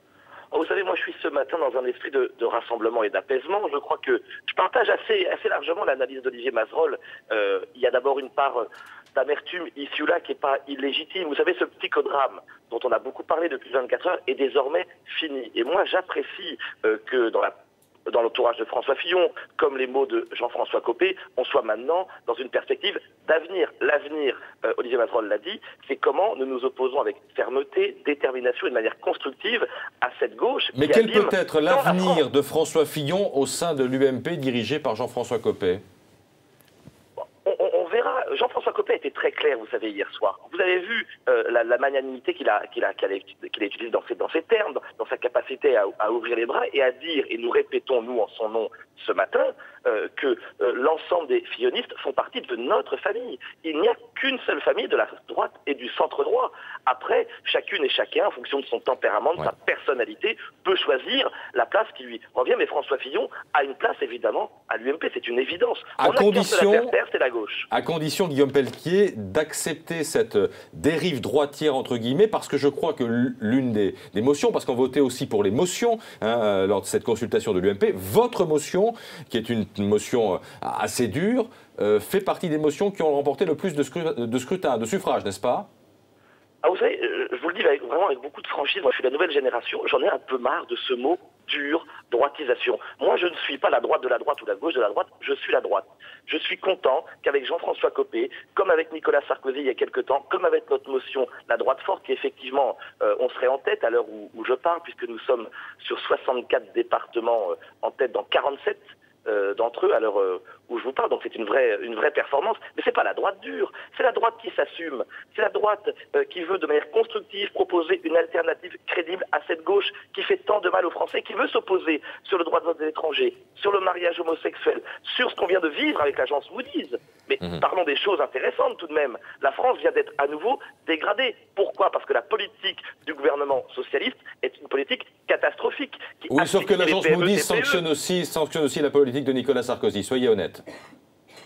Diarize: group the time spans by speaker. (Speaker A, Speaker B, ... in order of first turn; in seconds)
Speaker A: 0.5-17.5, 18.1-32.2, 37.4-67.7, 86.6-137.8
Speaker B: 30.8-35.8, 66.0-66.9, 67.7-85.7, 136.3-140.6